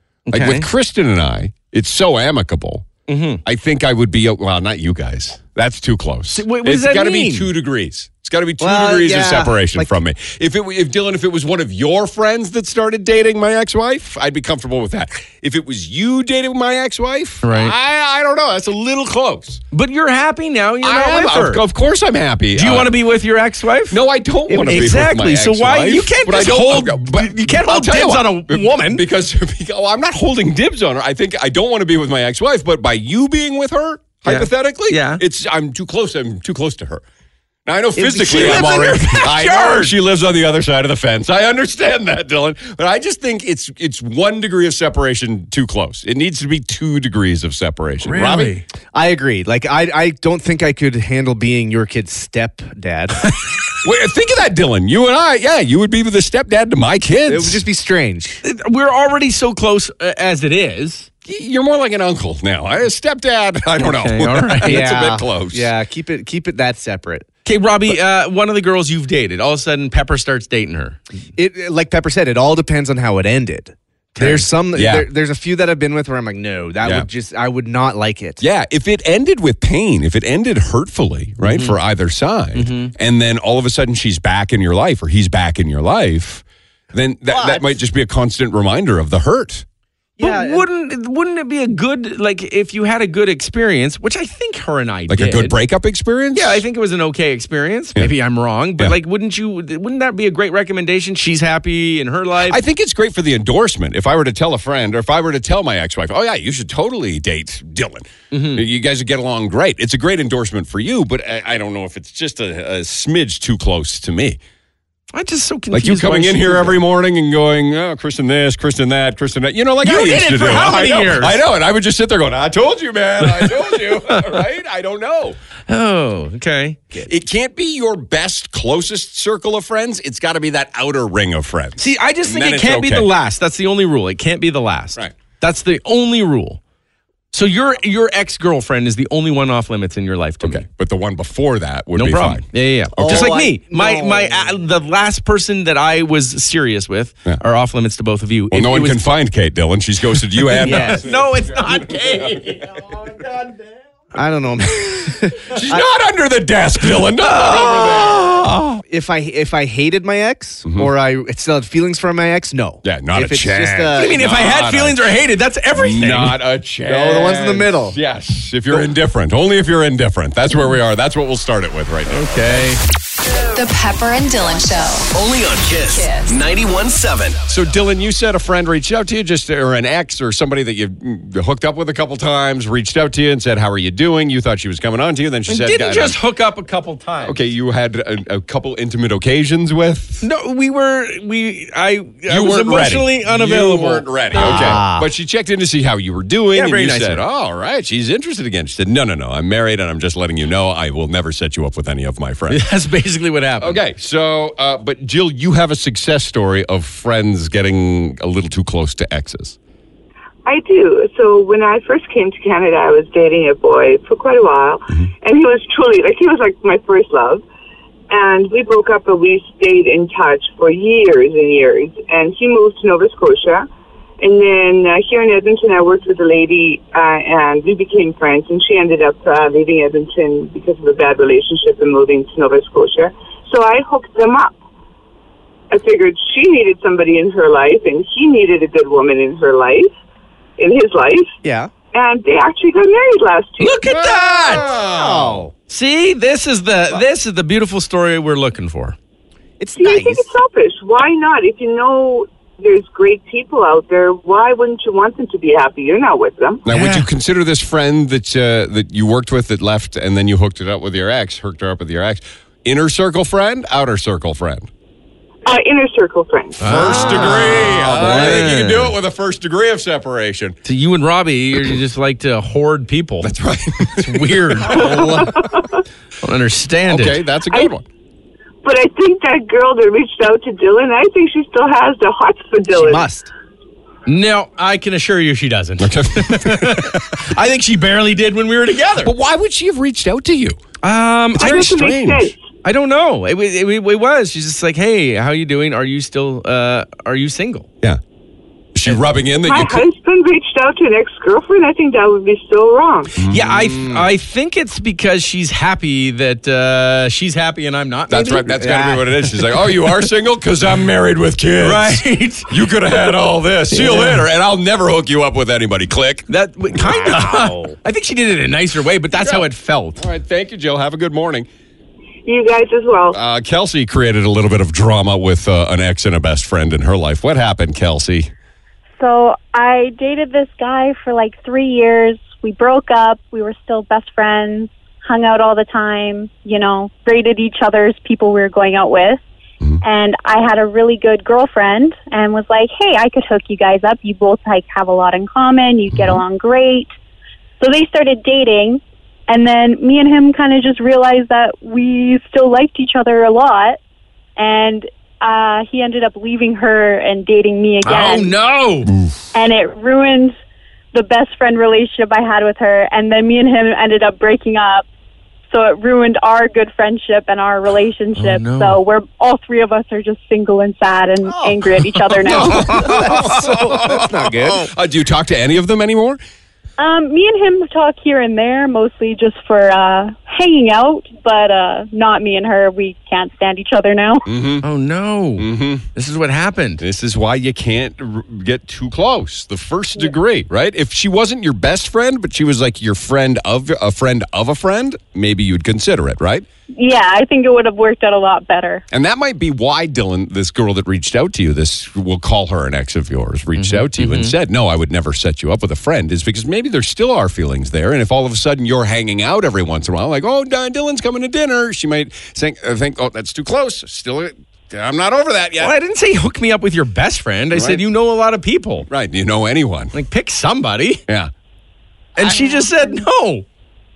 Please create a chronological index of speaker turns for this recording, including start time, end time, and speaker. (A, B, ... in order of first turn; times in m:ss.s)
0:00.3-0:00.7 A
0:00.3-0:02.9 B
0:03.1-0:03.4 A
0:03.4-0:19.6 B
0:06.3-0:07.5 A
0:08.6-0:09.9 C
0:17.4-0:17.8 A
0:19.7-0:21.6 A
0:20.8-0:22.9 B
0:22.6-0:24.0 A
0:23.9-0:37.0 B
0:24.5-0:25.1 C
0:24.6-0:29.0 A
0:34.2-0:35.2 A
0:37.7-0:48.5 B
0:38.0-0:39.9 A
0:38.1-0:38.9 C
0:48.0-0:48.6 A
0:48.9-0:53.2 C
0:53.8-0:57.6 B
0:57.3-0:58.4 C
0:58.4-1:01.1 A
1:01.2-1:05.7 B
1:03.8-1:04.8 A
1:04.6-1:07.3 C
1:07.5-1:11.0 A
1:11.4-1:18.4 C
1:14.1-1:14.5 A
1:14.7-1:15.1 B
1:18.4-1:29.6 B
1:21.4-1:21.8 A
1:22.5-1:22.9 A
1:27.3-1:27.8 C
1:30.2-1:30.6 C
1:30.2-1:35.5 A
1:35.1-1:36.6 B
1:36.3-1:42.6 A
1:42.5-1:54.4 B
1:48.3-1:48.6 A
1:55.1-1:56.8 A
1:55.7-2:05.4 B
1:59.8-2:01.4 A
2:03.3-2:04.4 A
2:05.7-2:06.9 A
2:07.0-2:13.1 B
2:11.8-2:16.6 A
2:17.3-2:20.6 A
2:20.4-2:23.4 B
2:22.0-2:29.1 A
2:23.0-2:24.5 C
2:28.5-2:32.2 B
2:30.5-2:32.8 A
2:30.6-2:31.1 C
2:34.1-2:35.9 C
2:35.5-2:38.4 B
2:37.2-2:38.8 A
2:38.9-2:44.2 C
2:42.8-2:45.1 B
2:44.0-2:46.4 A
2:45.7-2:52.6 B
2:46.8-2:48.0 C
2:52.1-2:52.8 A
2:53.5-2:55.1 D
2:55.1-2:57.4 E
2:55.9-2:56.3 D
2:57.5-3:06.2 B
3:05.5-3:07.4 A
3:07.2-3:10.2 B
3:10.2-3:14.8 A
3:12.3-3:22.6 B
3:14.4-3:15.1 C
3:16.5-3:17.2 A
3:22.5-3:23.8 A
3:23.6-3:29.6 B
3:30.4-3:37.4 F
3:38.1-3:43.7 F
3:44.2-3:54.6 F
3:55.7-3:59.9 F
4:00.6-4:01.4 F
4:01.4-4:01.7 C
4:01.9-4:03.8 F
4:03.6-4:04.7 A
4:03.9-4:05.4 B
4:04.5-4:05.5 C
4:05.7-4:09.0 A
4:09.6-4:10.2 C
4:09.8-4:16.6 F
4:16.7-4:24.7 B
4:16.7-4:17.1 A
4:25.5-4:26.7 F
4:26.6-4:29.0 A
4:26.6-4:30.6 B
4:26.9-4:28.4 C
4:30.6-4:33.3 A
4:33.2-4:35.5 B
4:33.8-4:35.3 A
4:34.9-4:35.2 C
4:35.1-4:35.8 F
4:36.2-4:37.2 A
4:36.9-4:37.8 B
4:38.6-4:43.1 F
4:42.7-4:43.3 C
4:44.0-4:49.1 A
4:45.8-4:47.1 B
4:49.0-4:50.6 B
4:50.8-4:51.7 A
4:51.3-4:52.3 B
4:51.4-4:52.4 F
4:52.6-4:57.7 A
4:58.8-4:59.8 B
4:59.4-5:03.2 F
5:03.2-5:03.9 B
5:03.3-5:08.6 A
5:08.1-5:17.8 B
5:08.4-5:09.2 C
5:11.6-5:12.5 A
5:13.7-5:14.2 A
5:16.3-5:20.0 A
5:19.2-5:19.4 B
5:20.0-5:21.5 B
5:22.2-5:23.2 F
5:23.1-5:28.3 B
5:29.0-5:39.2 G
5:39.8-5:46.9 G
5:45.9-5:46.2 B
5:47.6-5:53.8 G
5:54.4-5:58.3 G
5:57.8-5:58.9 A
5:59.3-6:00.4 G
6:00.9-6:04.9 G
6:05.5-6:12.9 G
6:08.2-6:08.8 A
6:11.3-6:11.6 C
6:12.2-6:14.7 C
6:12.3-6:16.2 B
6:12.4-6:13.8 A
6:16.8-6:24.2 G
6:24.2-6:24.6 B
6:24.6-6:26.8 A
6:25.4-6:25.8 B
6:26.8-6:36.4 B
6:36.7-6:38.8 G
6:38.9-6:55.8 B
6:43.6-6:44.4 A
6:55.6-6:58.9 A
6:57.5-6:57.8 B
6:58.9-7:00.0 B
6:59.9-7:01.0 A
7:02.2-7:03.4 A